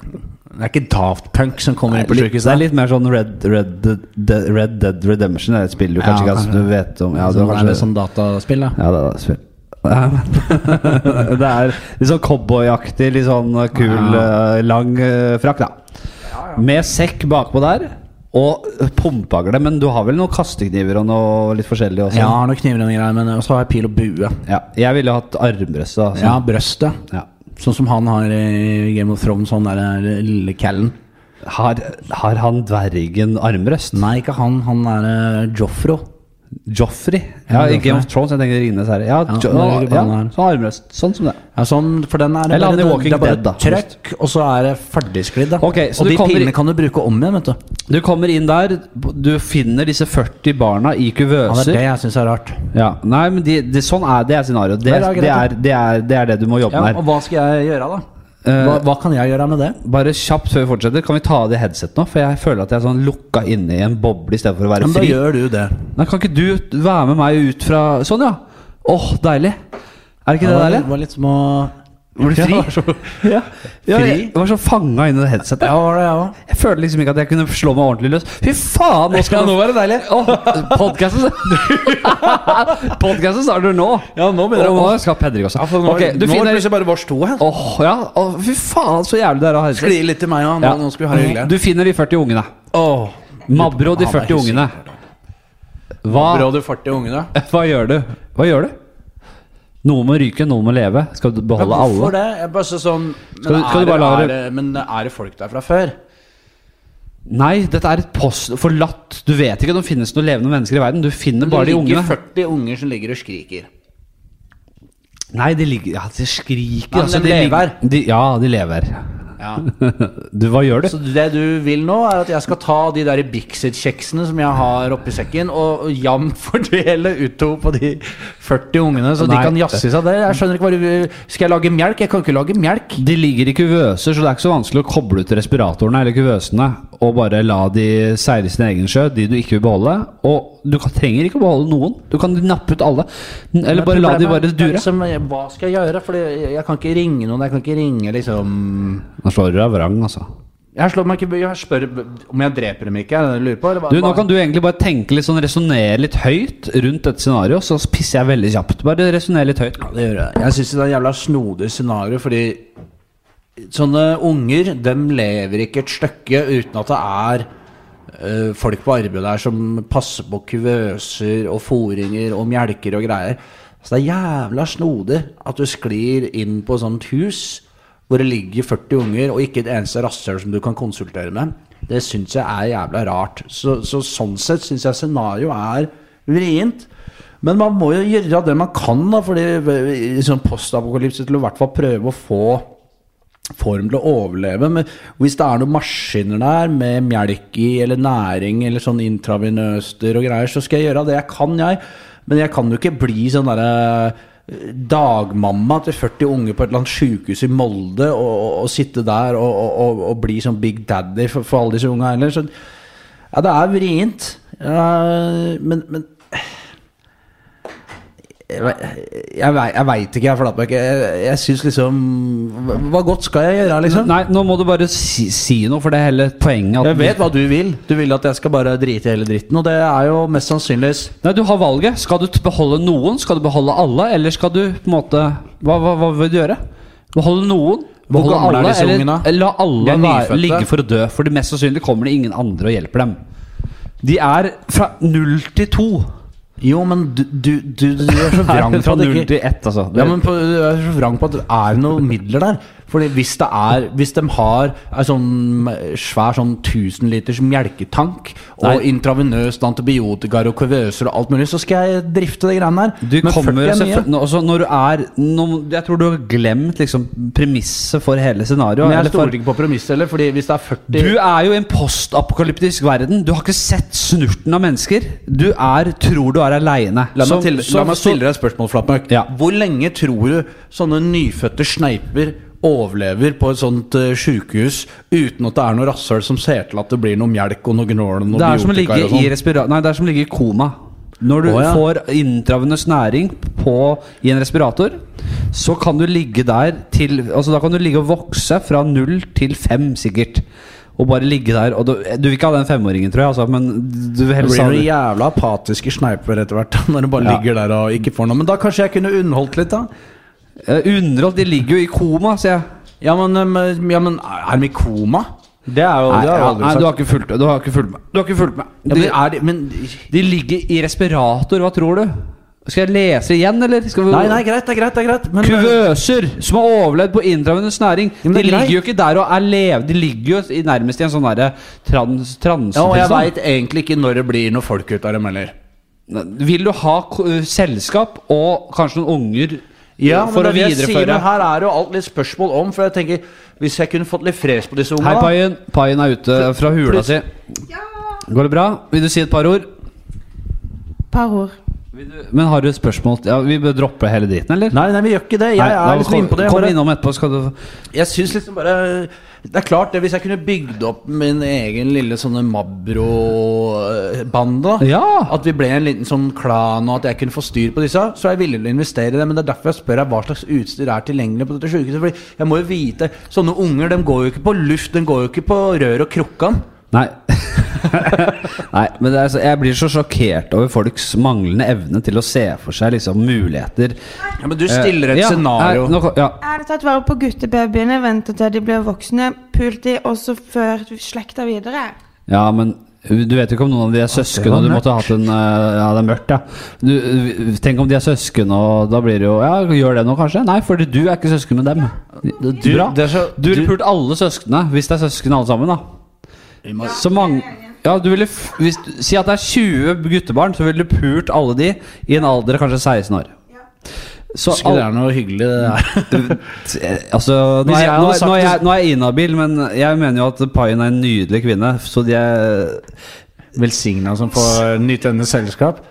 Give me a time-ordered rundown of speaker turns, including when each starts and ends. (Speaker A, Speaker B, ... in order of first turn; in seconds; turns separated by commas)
Speaker A: 0.5-2.6, Speaker B: 1.9-7.9, Speaker A: 6.0-8.8, Speaker B: 8.8-15.8, Speaker A: 13.8-14.3, Speaker A: 16.3-16.6, Speaker B: 16.6-22.4, Speaker A: 22.1-24.4, Speaker B: 24.4-26.4, Speaker A: 26.1-27.0, Speaker A: 27.6-30.9, Speaker B: 31.4-34.0, Speaker A: 33.9-36.0, Speaker B: 36.7-41.4, Speaker A: 37.5-38.1, Speaker A: 39.3-40.3, Speaker A: 41.5-47.6, Speaker B: 42.5-43.9, Speaker B: 45.6-46.5, Speaker B: 47.9-51.8, Speaker A: 51.5-52.6, Speaker B: 52.7-57.0, Speaker A: 54.8-55.5, Speaker A: 56.7-58.0, Speaker B: 58.4-58.8, Speaker A: 58.6-59.8, Speaker B: 59.8-65.2, Speaker A: 64.8-65.8, Speaker B: 66.0-69.6, Speaker B: 70.2-70.9, Speaker A: 70.4-73.2, Speaker B: 72.2-72.7, Speaker B: 73.2-75.7, Speaker A: 73.9-74.3, Speaker A: 75.6-76.4, Speaker B: 76.4-86.7, Speaker A: 79.1-82.9, Speaker A: 84.1-85.0, Speaker A: 85.5-87.4, Speaker B: 87.4-90.0, Speaker A: 89.7-91.5, Speaker B: 90.6-92.5, Speaker A: 92.7-95.0, Speaker B: 93.5-94.7, Speaker B: 96.0-96.5, Speaker A: 96.0-97.3, Speaker B: 97.3-98.7, Speaker B: 99.8-102.1, Speaker A: 101.6-105.9, Speaker B: 103.4-104.3, Speaker B: 107.3-112.2, Speaker A: 111.4-113.7, Speaker B: 115.3-119.0, Speaker A: 116.9-117.8, Speaker A: 119.4-119.7, Speaker B: 119.6-120.9, Speaker A: 120.8-133.0, Speaker B: 129.2-129.8, Speaker B: 133.0-144.9, Speaker A: 143.7-149.1, Speaker B: 149.2-150.3, Speaker A: 150.7-154.2, Speaker B: 153.9-159.8, Speaker A: 159.8-162.6, Speaker A: 163.6-167.5, Speaker A: 168.1-186.9, Speaker A: 187.4-192.7, Speaker A: 193.6-212.5, Speaker A: 213.3-216.5, Speaker A: 218.5-224.1, Speaker B: 223.8-227.2, Speaker A: 226.8-231.1, Speaker B: 231.2-236.6, Speaker B: 237.1-243.2, Speaker A: 238.1-239.3, Speaker A: 239.8-240.7, Speaker B: 244.0-246.1, Speaker A: 246.6-249.3, Speaker B: 248.1-250.2, Speaker A: 249.9-264.1, Speaker B: 263.0-269.4, Speaker A: 268.8-271.1, Speaker B: 270.9-278.2, Speaker A: 277.1-289.3, Speaker B: 288.3-300.4, Speaker A: 291.4-291.8, Speaker B: 301.0-304.9, Speaker A: 304.4-309.9, Speaker B: 310.6-312.6, Speaker A: 313.0-316.9, Speaker B: 316.1-319.2, Speaker A: 318.9-320.1, Speaker B: 320.1-322.1, Speaker B: 322.6-324.4, Speaker A: 324.1-325.8, Speaker B: 325.4-333.3, Speaker A: 328.2-328.8, Speaker A: 332.7-335.5, Speaker B: 336.1-341.2, Speaker A: 340.0-345.3, Speaker B: 345.0-347.3, Speaker A: 346.6-347.1, Speaker B: 348.2-349.7, Speaker C: 351.1-351.6, Speaker B: 351.9-354.8, Speaker A: 354.7-356.8, Speaker B: 355.6-357.5, Speaker A: 357.9-376.6, Speaker B: 364.8-365.3, Speaker B: 376.9-383.9, Speaker A: 384.4-385.9, Speaker B: 384.7-386.4, Speaker C: 386.4-391.9, Speaker B: 392.3-401.9, Speaker A: 394.1-395.1, Speaker A: 402.2-403.7, Speaker B: 402.5-405.8, Speaker A: 406.6-407.0, Speaker B: 406.8-413.3, Speaker B: 414.3-414.9, Speaker A: 414.5-416.4, Speaker B: 416.1-422.8, Speaker A: 417.6-418.6, Speaker A: 423.5-425.8